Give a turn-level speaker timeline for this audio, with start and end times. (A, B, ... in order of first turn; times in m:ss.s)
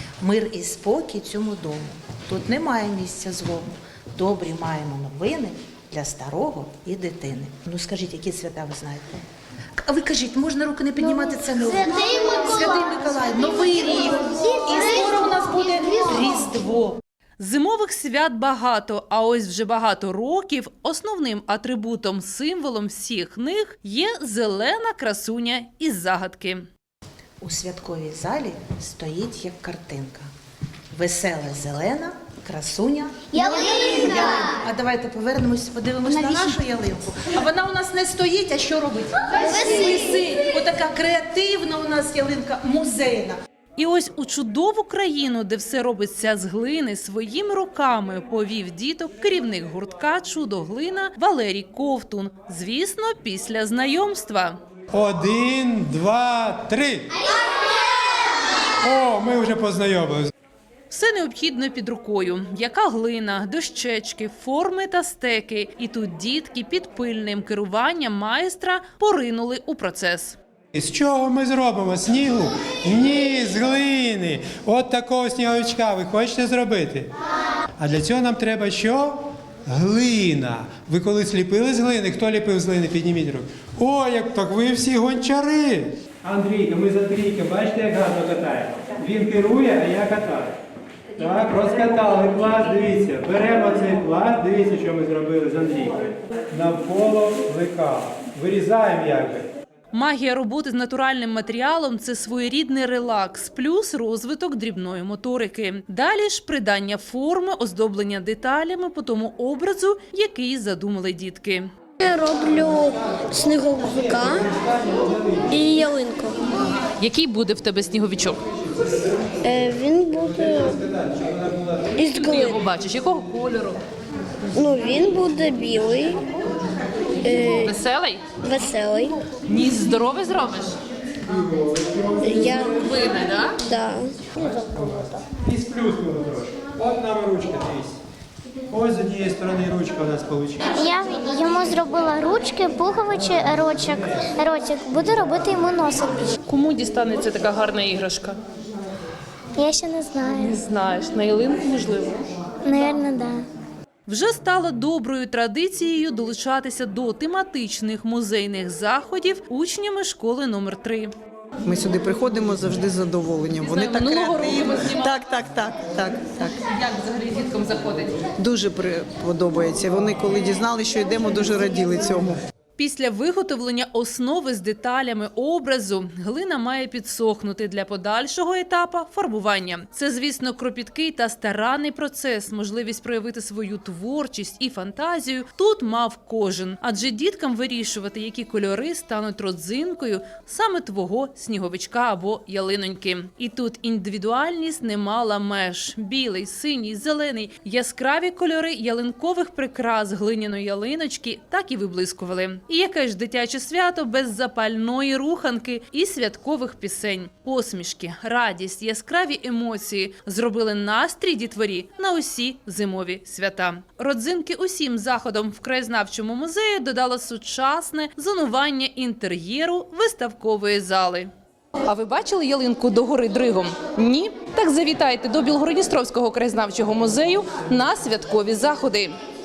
0:00.2-0:09.2 A
0:09.8-0:17.0 A
0:11.9-0:12.6 B
0:17.4-0:26.7 C
0:27.4-0:30.3 A
0:30.9-0:43.4 A
0:33.3-0:34.5 B
0:43.8-0:54.6 C
0:54.9-0:57.2 D
0:58.8-1:00.3 D
1:00.9-1:10.4 C
1:10.7-1:17.1 D
1:17.8-1:30.6 D
1:31.2-1:39.5 D
1:39.9-1:51.7 C
1:52.0-1:54.5 E
1:53.9-1:55.6 D
1:55.5-1:56.4 E
1:57.0-1:58.4 C
1:59.4-2:00.8 E
2:00.2-2:02.0 D
2:01.9-2:02.6 E
2:02.0-2:03.8 C
2:04.5-2:06.3 E
2:07.2-2:07.7 E
2:07.6-2:08.3 C
2:08.4-2:09.2 E
2:09.4-2:10.8 C
2:11.2-2:12.9 D
2:12.2-2:12.8 E
2:12.8-2:13.6 C
2:13.6-2:14.3 E
2:14.3-2:18.0 D
2:18.7-2:20.7 D
2:20.8-2:26.3 B
2:23.1-2:24.3 D
2:26.4-2:28.4 C
2:29.6-2:30.6 B
2:30.2-2:32.2 C
2:32.6-2:33.4 B
2:34.0-2:41.1 C
2:41.6-2:46.6 F
2:43.6-2:45.2 C
2:46.5-2:48.2 C
2:48.4-2:52.4 F
2:52.8-3:41.3 C
3:41.8-3:49.1 C